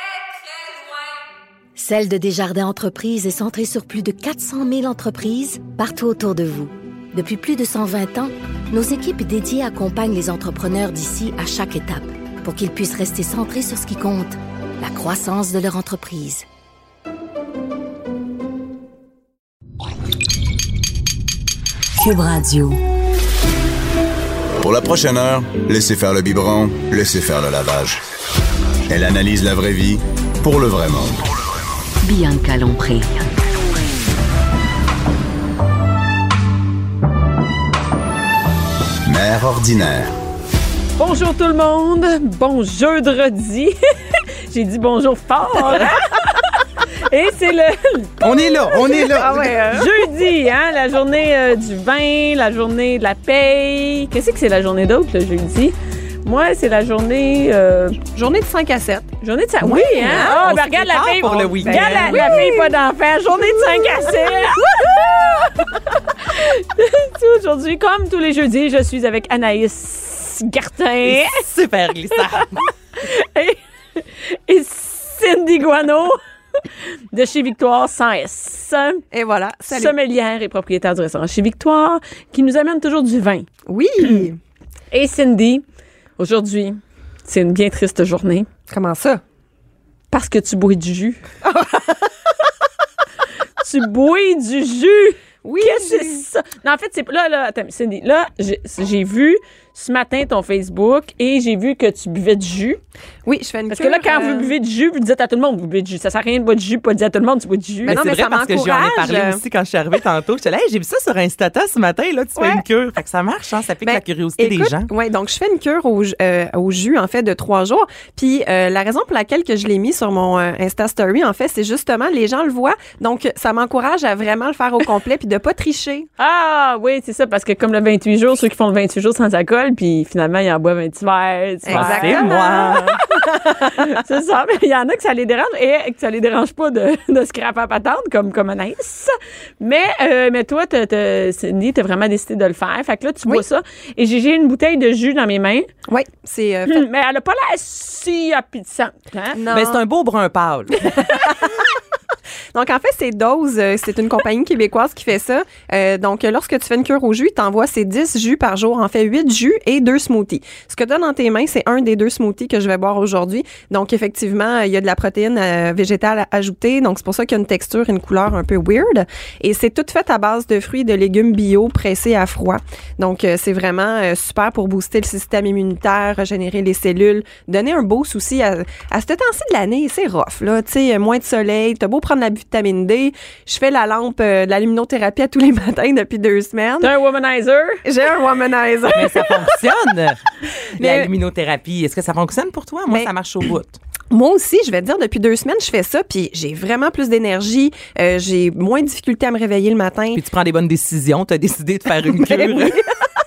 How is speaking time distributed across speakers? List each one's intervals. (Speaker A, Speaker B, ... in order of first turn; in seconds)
Speaker A: 1.8-16.5
Speaker B: 22.0-22.8, 32.0-33.3
Speaker C: 24.6-28.0, 28.9-31.3, 39.0-40.1
Speaker D: 41.0-48.1, 49.7-58.0, 59.2-71.5, 72.1-72.5, 73.0-76.2, 77.1-79.0, 79.7-83.5, 84.9-85.6, 86.2-88.5, 90.1-91.2, 93.6-102.8, 103.7-108.0, 126.2-145.7, 146.7-149.4, 186.8-187.8
Speaker E: 48.2-49.7, 59.6-62.4, 71.0-72.7, 107.8-114.9, 131.7-133.0, 149.5-151.2, 188.9-190.2, 190.8-193.8, 200.1-202.8
Speaker F: 48.9-49.9, 58.1-59.1, 59.6-62.7, 79.1-79.9, 83.7-84.4, 88.7-89.2, 91.4-92.1, 95.4-96.2, 103.3-104.5, 107.9-109.4, 112.4-112.6, 113.8-126.1, 131.7-132.8, 133.3-133.8, 145.9-146.9, 149.3-149.8, 150.8-151.7, 152.5-186.9, 187.8-189.6, 190.8-191.1, 194.1-200.2, 202.1-202.9